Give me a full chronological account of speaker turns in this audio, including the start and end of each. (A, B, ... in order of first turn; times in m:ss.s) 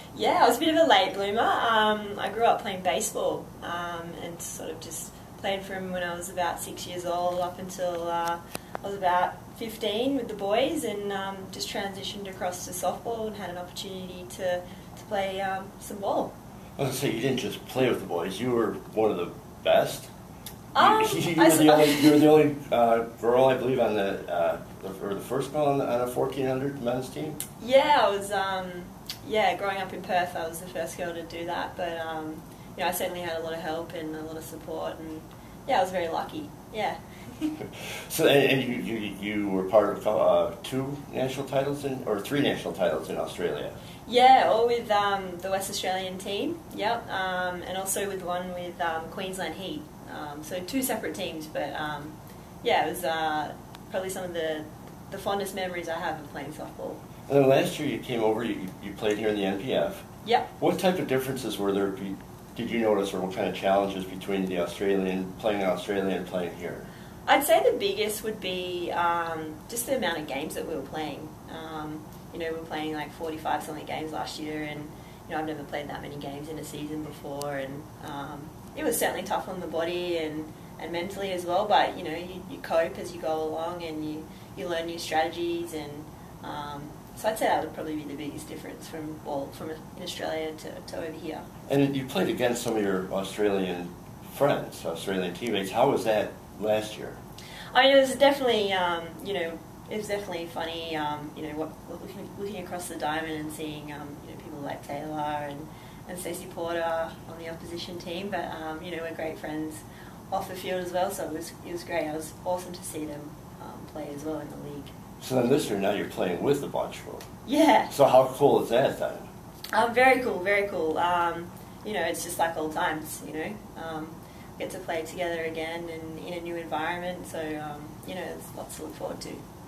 0:00.1-0:16.3 A
0:16.8-0:20.1 B
0:20.7-0:22.3 A
0:20.8-0:27.4 B
0:27.6-0:37.5 A
0:38.1-0:43.8 B
0:44.1-0:57.0 A
0:57.3-1:00.0 B
1:00.2-1:00.5 A
1:00.6-1:06.9 B
1:07.3-1:31.4 A
1:31.7-1:37.2 B
1:37.7-1:54.9 A
1:55.2-1:57.3 B
1:57.5-1:57.9 A
1:57.9-1:59.3 B
1:59.7-2:09.4 A